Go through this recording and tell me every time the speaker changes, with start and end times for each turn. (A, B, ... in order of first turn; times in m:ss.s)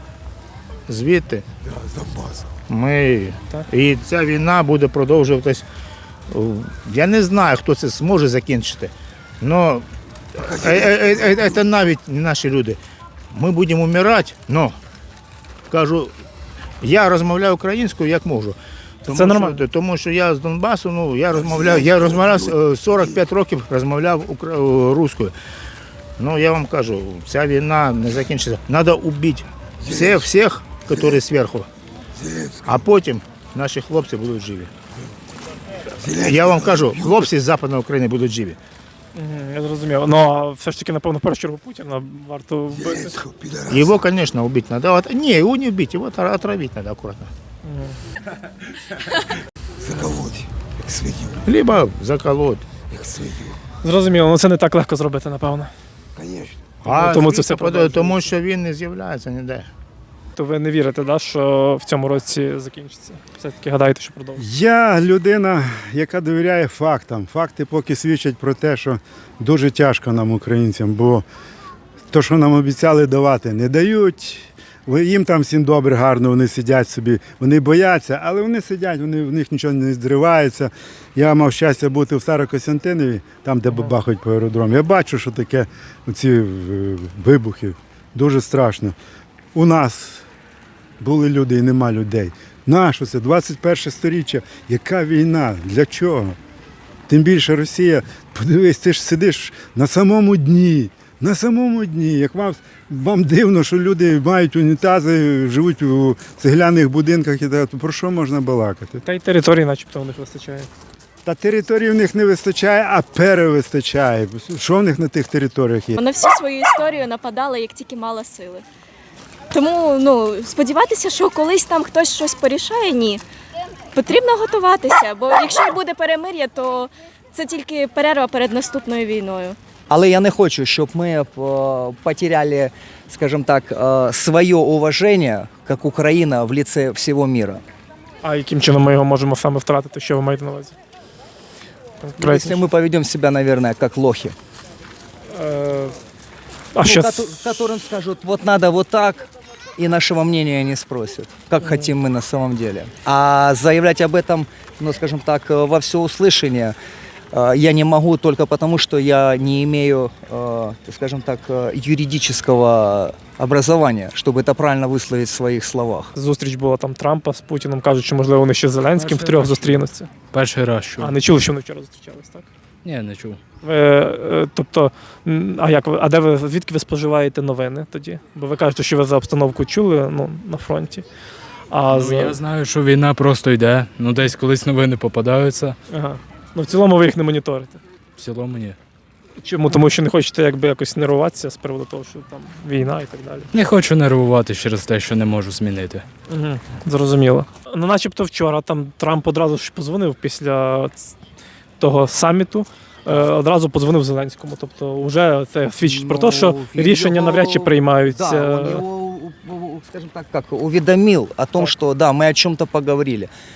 0:00.9-0:01.4 A
0:02.7-0:05.6 A
0:06.3-0:09.8 A
0:10.4-0:12.8 A
0:13.3-0:14.8 A
0:15.7-0:16.1 A
0:16.8-0:25.3 A
0:19.1-0:19.6 B
0:26.2-0:31.7 A
0:32.6-0:34.7 A
0:36.1-0:38.6 A
0:39.2-0:43.2 B
0:43.7-0:47.3 A
0:47.6-0:48.0 B
0:51.4-0:52.6 A
0:53.8-0:55.7 B
0:56.8-0:59.7 A
0:56.9-0:58.3 B
1:00.4-1:04.4 B
1:04.4-1:11.2 C
1:12.1-1:29.0 C
1:29.6-1:30.2 C
1:31.0-1:36.4 C
1:37.1-1:49.0 C
1:49.0-1:50.7 B
1:51.2-1:56.0 C
1:56.0-1:58.6 D
1:59.5-2:03.2 D
2:03.9-2:09.6 D
2:09.9-2:17.6 E
2:18.2-2:20.8 B
2:22.0-2:22.6 B
2:22.2-2:24.4 E
2:25.3-2:26.0 B
2:26.8-2:27.3 B
2:26.8-2:36.8 E
2:31.6-2:31.9 B
2:37.3-2:46.1 E
2:46.2-2:50.1 B
2:49.0-2:49.8 F
2:50.3-2:51.1 F
2:51.0-2:52.5 B
2:52.8-2:53.4 F
2:53.6-3:01.0 B
3:01.7-3:02.4 B
3:02.0-3:05.7 F
3:05.9-3:07.8 B
3:08.2-3:08.8 F
3:09.4-3:13.5 B
3:13.5-3:16.0 F
3:16.3-3:21.0 B
3:21.8-3:28.8 B
3:25.8-3:33.3 E